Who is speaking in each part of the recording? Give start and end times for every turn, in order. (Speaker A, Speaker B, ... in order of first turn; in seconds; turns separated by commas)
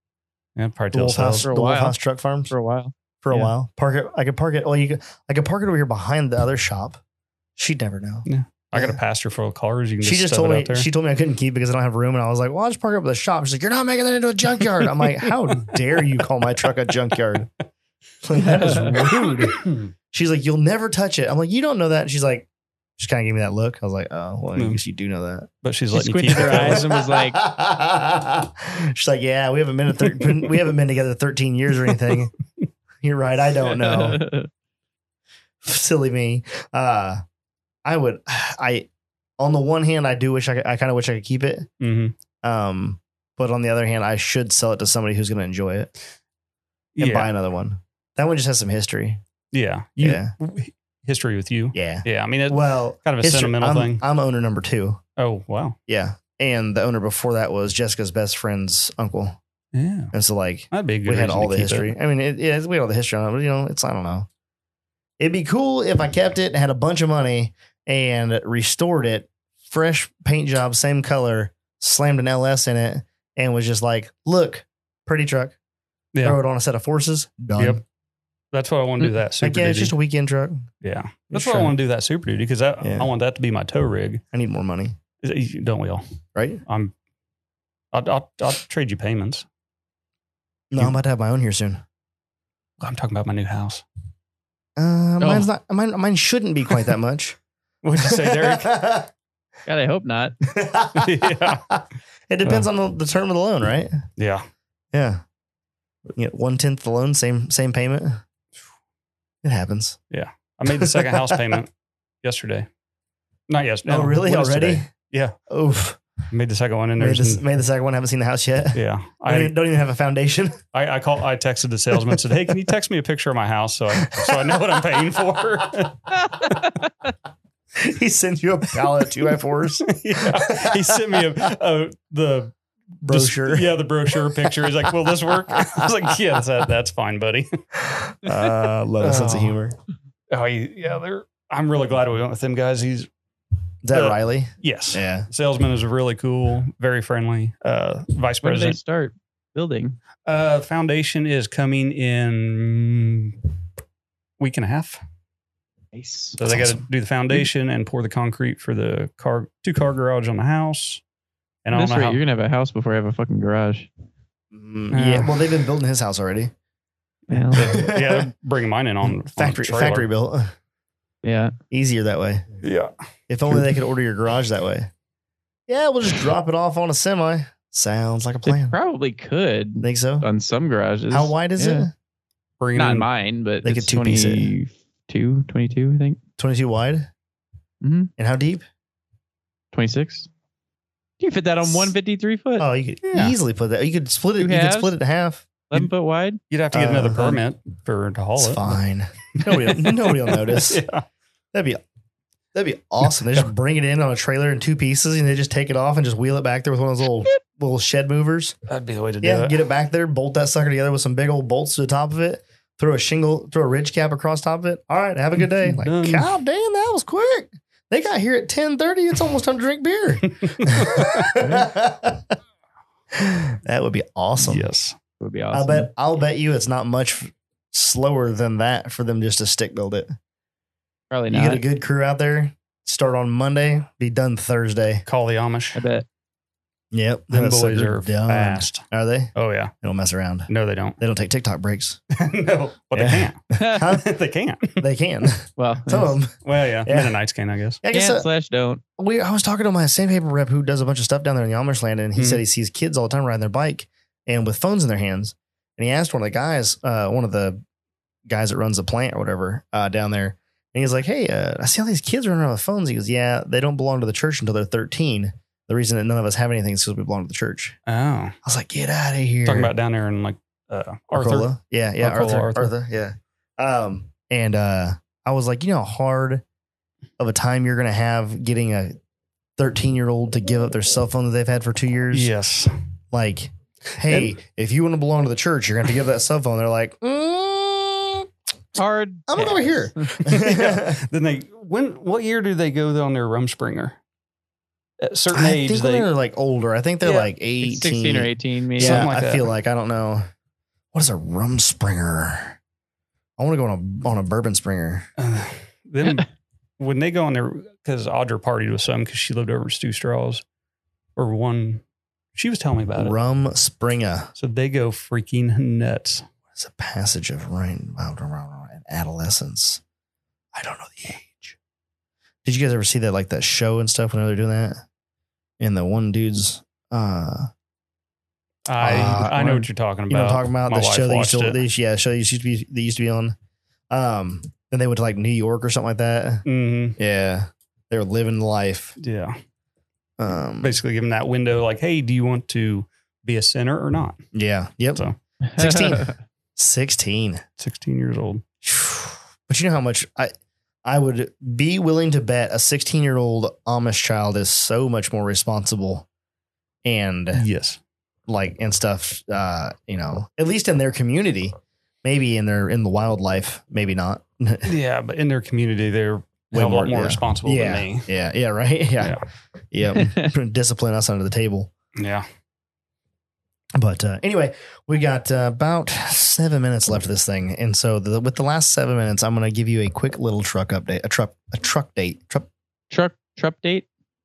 Speaker A: 0.6-1.5, Speaker B: 0.9-2.5, Speaker C: 1.4-2.0, Speaker C: 2.5-2.9, Speaker B: 3.2-7.0, Speaker B: 7.6-9.0, Speaker A: 8.3-10.9, Speaker B: 10.0-17.5, Speaker A: 15.5-15.8, Speaker B: 18.2-19.6, Speaker C: 18.4-18.9, Speaker A: 18.6-19.9, Speaker B: 20.1-25.5, Speaker A: 24.6-24.8, Speaker A: 25.6-26.9, Speaker C: 25.9-27.4, Speaker B: 26.3-32.3, Speaker B: 33.0-34.2, Speaker C: 33.7-34.5, Speaker B: 35.6-37.2, Speaker B: 37.9-38.9, Speaker B: 39.4-41.7, Speaker A: 41.8-42.1, Speaker B: 42.4-45.9, Speaker A: 47.0-47.3, Speaker B: 47.0-49.2, Speaker A: 49.5-54.0, Speaker B: 50.0-50.3, Speaker B: 51.7-55.0, Speaker A: 55.2-55.8, Speaker B: 55.9-59.4, Speaker A: 59.7-60.1, Speaker B: 60.1-64.3, Speaker A: 60.7-61.9, Speaker B: 65.2-75.5, Speaker B: 76.2-77.8, Speaker A: 78.5-80.0, Speaker B: 79.4-80.7, Speaker A: 80.8-84.2, Speaker B: 81.3-81.8, Speaker B: 82.8-83.1, Speaker B: 84.3-85.0, Speaker A: 85.2-86.0, Speaker B: 86.4-86.6, Speaker A: 86.7-86.9, Speaker A: 87.9-89.5, Speaker B: 90.7-91.8, Speaker A: 92.8-93.8, Speaker B: 94.8-97.4, Speaker A: 97.8-98.7, Speaker B: 98.0-99.1, Speaker C: 99.7-100.3, Speaker B: 100.5-104.0, Speaker A: 101.0-101.7, Speaker A: 104.2-104.5, Speaker B: 104.9-105.2, Speaker B: 106.1-108.2, Speaker B: 109.4-110.0, Speaker A: 110.1-111.7, Speaker B: 110.7-111.6, Speaker A: 112.2-112.7, Speaker A: 113.5-115.3, Speaker B: 113.9-114.9, Speaker B: 115.5-116.0, Speaker A: 116.3-117.4, Speaker B: 117.0-120.6, Speaker A: 118.8-119.5, Speaker A: 120.7-126.8, Speaker B: 124.0-125.0, Speaker B: 127.8-131.2, Speaker A: 129.8-132.6, Speaker B: 133.0-135.9, Speaker A: 133.1-137.5, Speaker B: 137.8-139.8, Speaker A: 138.3-139.6, Speaker A: 140.3-143.1, Speaker B: 143.8-145.3, Speaker A: 143.9-148.8, Speaker C: 148.4-150.0, Speaker A: 150.3-153.4, Speaker A: 154.4-155.0, Speaker C: 155.9-156.4, Speaker A: 156.4-161.0, Speaker B: 156.4-156.8, Speaker A: 161.7-162.2, Speaker C: 161.7-163.9, Speaker B: 164.5-166.5, Speaker A: 164.9-165.4, Speaker C: 167.3-167.9, Speaker A: 167.3-170.1, Speaker B: 167.5-168.3, Speaker B: 169.3-170.5, Speaker C: 171.2-171.5, Speaker B: 171.7-172.5, Speaker A: 172.6-172.9, Speaker B: 173.3-174.9, Speaker B: 175.7-178.8, Speaker C: 178.5-181.9, Speaker B: 179.8-180.3, Speaker B: 181.1-181.9, Speaker A: 182.6-183.1, Speaker C: 182.8-186.2, Speaker B: 183.6-184.5, Speaker B: 186.4-187.1, Speaker C: 187.8-188.1, Speaker B: 188.2-188.7, Speaker C: 189.7-190.3, Speaker C: 191.2-192.7, Speaker B: 192.6-195.5, Speaker A: 193.1-193.3, Speaker C: 194.4-194.9, Speaker C: 195.7-196.4, Speaker A: 196.5-198.8, Speaker B: 196.7-197.4, Speaker B: 198.4-200.8, Speaker A: 199.4-201.1, Speaker B: 201.5-201.8, Speaker B: 202.5-208.6, Speaker A: 208.7-209.6, Speaker B: 209.2-222.3, Speaker A: 215.6-216.3, Speaker A: 220.4-221.4, Speaker B: 223.1-224.7, Speaker A: 224.4-225.0, Speaker C: 225.2-225.9, Speaker B: 225.5-230.1, Speaker C: 231.1-231.6, Speaker B: 231.3-235.1, Speaker A: 235.1-235.8, Speaker C: 235.7-236.1, Speaker B: 236.9-240.5, Speaker A: 237.3-238.8, Speaker A: 239.4-239.7, Speaker A: 240.5-241.0, Speaker B: 241.0-242.0, Speaker A: 242.1-244.8, Speaker B: 242.9-244.1, Speaker C: 243.6-243.9, Speaker B: 244.8-247.1, Speaker C: 245.6-246.2, Speaker A: 246.4-247.8, Speaker B: 247.8-248.3, Speaker C: 247.9-248.8, Speaker B: 249.0-257.6, Speaker A: 252.2-252.4, Speaker B: 258.3-267.8, Speaker A: 267.9-268.4, Speaker B: 268.4-269.7, Speaker A: 269.5-272.7, Speaker B: 271.1-276.4, Speaker B: 277.2-279.0, Speaker B: 279.6-282.3, Speaker A: 282.1-282.7, Speaker B: 283.1-288.3, Speaker C: 288.8-290.0, Speaker B: 289.3-291.0, Speaker A: 290.2-294.0, Speaker A: 295.0-296.1, Speaker B: 295.3-300.2, Speaker C: 297.6-299.1, Speaker A: 298.8-299.5, Speaker B: 300.9-302.6, Speaker B: 303.4-305.1, Speaker A: 305.2-306.3, Speaker A: 306.8-310.4, Speaker A: 311.2-311.8, Speaker A: 312.4-313.1, Speaker B: 313.0-314.3, Speaker A: 314.4-316.3, Speaker B: 316.5-319.8, Speaker B: 320.5-321.6, Speaker B: 322.4-324.8, Speaker B: 325.6-327.5, Speaker A: 328.7-331.6, Speaker B: 328.8-333.4, Speaker B: 333.9-336.4, Speaker A: 336.5-337.0, Speaker B: 337.0-339.0, Speaker A: 339.0-339.4, Speaker B: 340.2-340.8, Speaker A: 340.6-344.2, Speaker B: 344.3-345.0, Speaker C: 345.4-346.1, Speaker B: 345.6-347.4, Speaker A: 347.6-348.4, Speaker B: 348.6-350.3, Speaker B: 350.9-356.1, Speaker B: 356.8-357.5, Speaker A: 357.4-357.8, Speaker B: 358.3-364.7, Speaker A: 364.7-368.1, Speaker B: 366.5-369.2, Speaker B: 369.7-371.7, Speaker C: 369.9-370.3, Speaker A: 372.0-372.3, Speaker B: 373.8-382.5, Speaker C: 382.9-383.9